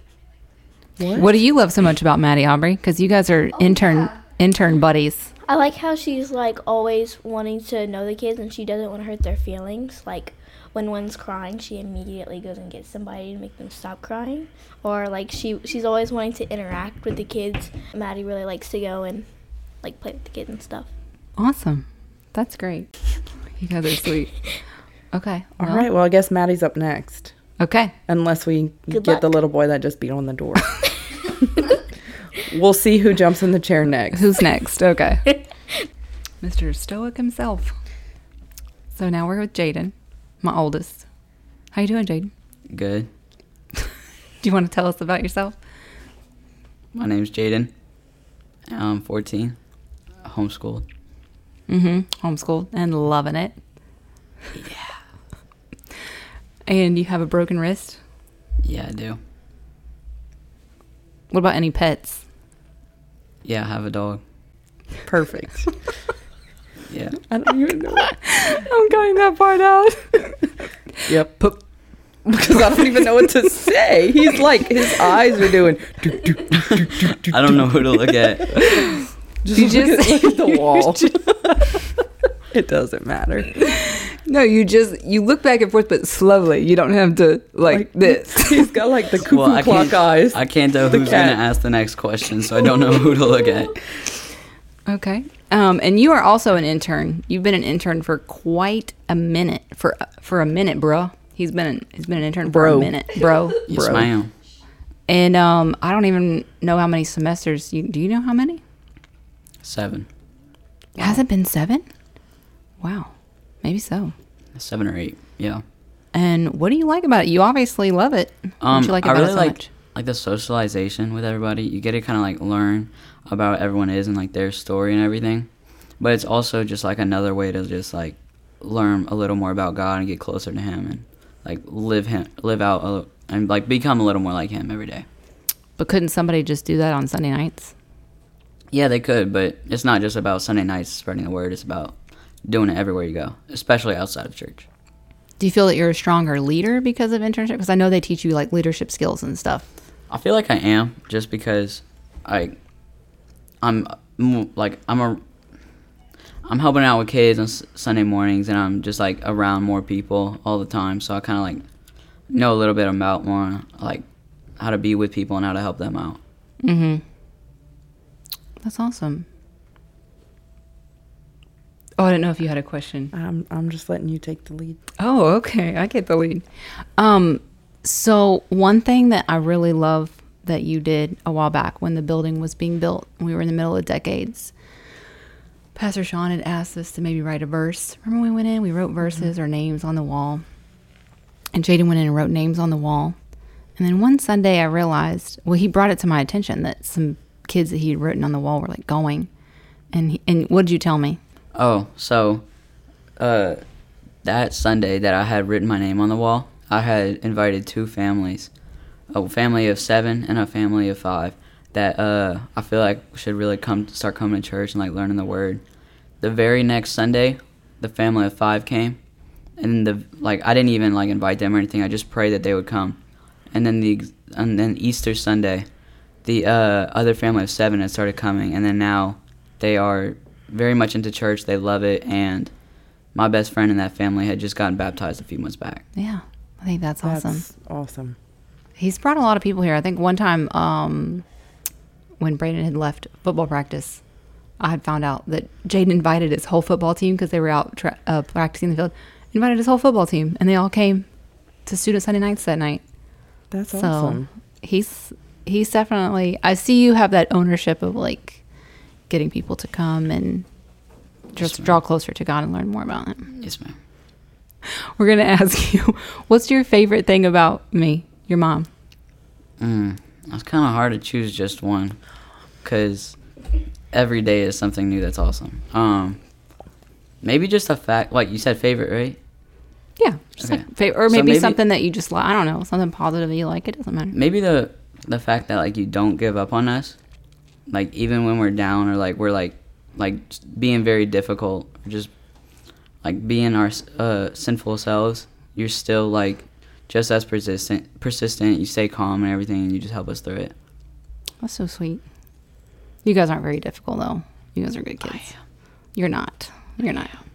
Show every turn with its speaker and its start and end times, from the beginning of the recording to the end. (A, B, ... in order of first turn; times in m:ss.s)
0:01.0-0:01.3 A
0:01.2-0:05.3 B
0:05.5-0:19.3 C
0:19.8-0:20.9 C
0:21.4-0:22.9 B
0:23.6-0:24.4 B
0:25.1-0:25.9 B
0:25.6-0:27.3 A
0:27.6-0:27.9 B
0:28.1-0:30.8 A
0:28.9-0:29.2 C
0:32.4-0:34.2 A
0:34.1-0:35.4 B
0:36.4-0:37.7 B
0:39.0-0:41.0 B
0:41.7-0:42.3 B
0:42.7-0:43.1 D
0:44.4-0:45.6 B
0:46.9-0:47.7 D
0:48.7-0:49.6 D
0:50.2-0:50.8 D
0:51.7-0:53.6 B
0:54.6-0:54.9 D
0:56.7-0:58.0 B
0:58.6-0:59.2 D
1:01.3-1:02.2 B
1:03.4-1:04.2 D
1:05.1-1:05.7 A
1:06.9-1:07.2 D
1:07.3-1:08.2 A
1:08.1-1:10.5 B
1:11.0-1:11.6 B
1:11.1-1:11.4 A
1:12.3-1:18.5 A
1:12.3-1:12.8 B
1:17.3-1:18.9 D
1:19.4-1:21.9 A
1:19.5-1:21.2 B
1:22.5-1:23.5 A
1:23.6-1:28.7 B
1:27.7-1:31.4 A
1:29.3-1:33.8 D
1:34.9-1:43.6 B
1:42.5-1:44.1 A
1:43.7-1:44.3 D
1:45.1-1:48.6 B
1:49.6-1:50.1 D
1:51.0-1:51.2 A
1:51.0-1:51.9 B
1:52.8-1:54.1 B
1:54.6-1:55.6 D
1:56.1-1:59.7 B
1:58.6-2:05.5 D
2:06.0-2:15.0 D
2:15.8-2:17.7 B
2:18.7-2:24.7 D
2:25.4-2:29.7 B
2:30.1-2:32.6 D
2:33.6-2:35.2 D
2:36.5-2:41.6 D
2:42.3-2:44.0 D
2:44.6-2:46.2 D
2:46.6-2:47.0 B
2:48.6-2:49.3 B
2:52.0-2:53.1 B
2:53.1-2:54.8 A
2:55.0-2:56.4 B
2:57.0-3:04.5 B
3:05.8-3:10.4 B
3:11.5-3:13.2 B
3:13.8-3:19.3 B
3:19.9-3:21.2 B
3:21.5-3:22.4 D
3:23.2-3:23.6 D
3:24.2-3:28.5 D
3:29.1-3:35.6 D
3:36.2-3:39.0 D
3:39.6-3:43.0 D
3:43.5-3:45.7 D
3:46.2-3:52.5 D
3:53.1-3:55.8 D
3:56.0-3:57.4 B
3:57.0-3:58.2 A
3:58.8-4:01.2 B
4:02.2-4:04.0 B
4:04.6-4:11.1 B
4:11.7-4:12.8 B
4:13.5-4:14.3 A
4:13.7-4:18.4 B
4:19.1-4:20.5 B
4:21.3-4:23.3 B
4:21.4-4:21.7 D
4:23.4-4:23.7 D
4:25.0-4:28.7 B
4:29.6-4:32.0 D
4:32.6-4:33.2 D
4:33.9-4:36.2 D
4:37.2-4:39.2 D
4:40.0-4:44.2 B
4:40.4-4:41.6 D
4:44.1-4:47.0 D
4:47.7-4:52.1 D
4:53.0-5:00.5 D
5:01.4-5:02.0 B
5:03.0-5:05.3 B
5:05.0-5:05.3 D
5:06.0-5:07.2 B